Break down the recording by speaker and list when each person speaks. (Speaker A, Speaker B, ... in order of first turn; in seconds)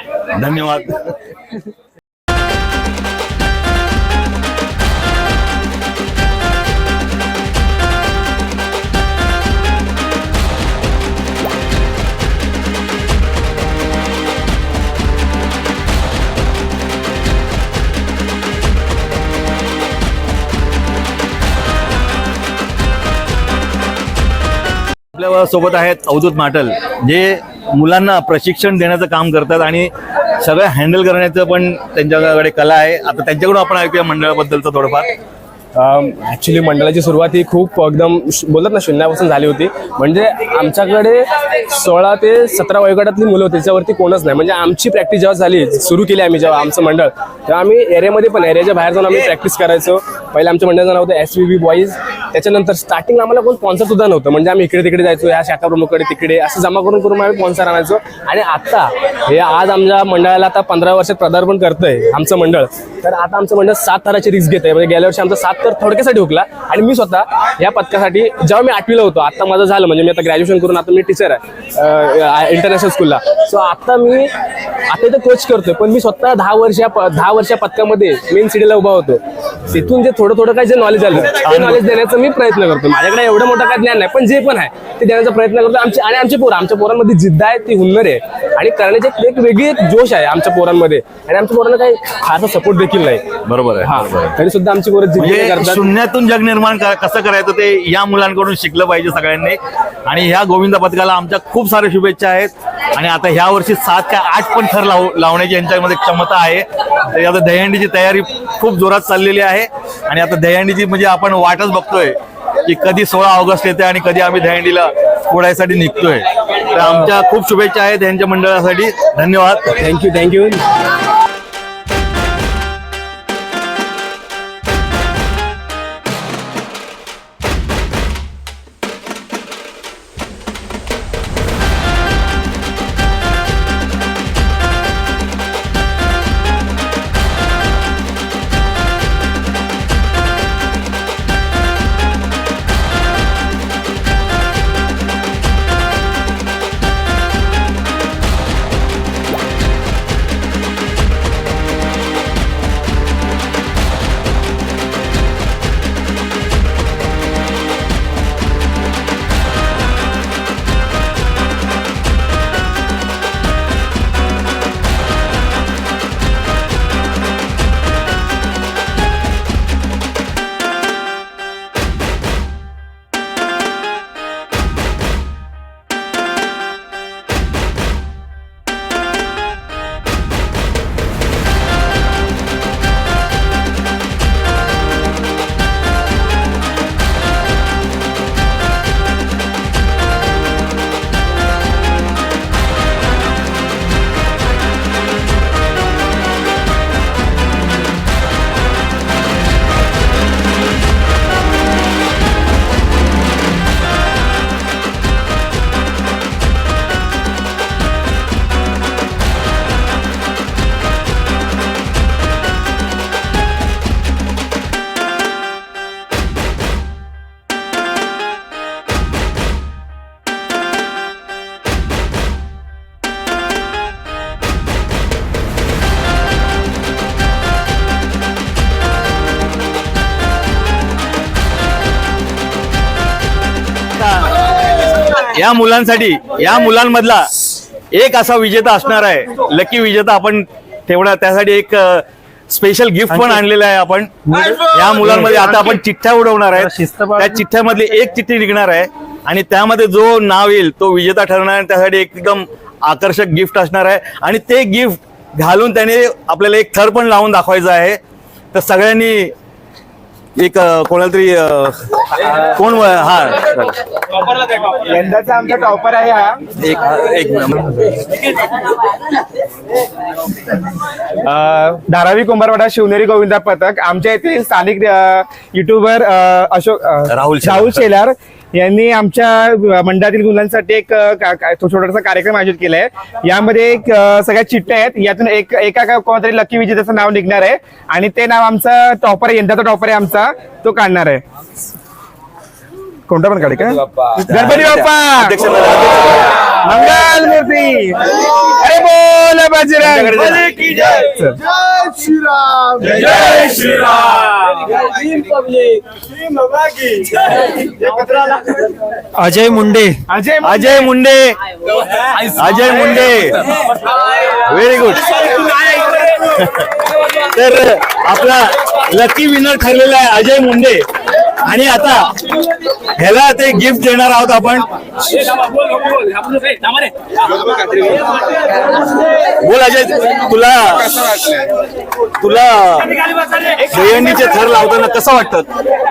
Speaker A: 0.3-1.1, 25.1-35.1, 81.3-81.8, 93.5-94.4, 95.2-119.8, 233.9-258.0, 258.5-259.3, 260.4-263.8, 266.6-267.8, 277.1-277.9, 294.2-296.3, 299.8-300.8, 310.4-311.4, 312.2-313.5, 314.3-320.8, 321.4-322.2, 322.9-324.7, 329.3-330.9, 332.2-332.9, 333.6-335.5
Speaker B: 35.8-74.3, 74.9-93.3, 93.8-95.9, 119.8-120.6, 325.1-326.9
Speaker C: 243.1-243.4, 244.3-245.6, 246.5-247.4, 309.2-310.0
Speaker D: 264.6-266.4, 271.2-291.2, 293.1-295.4, 296.6-303.0, 307.9-308.4, 310.1-310.8, 327.4-328.1, 330.7-331.5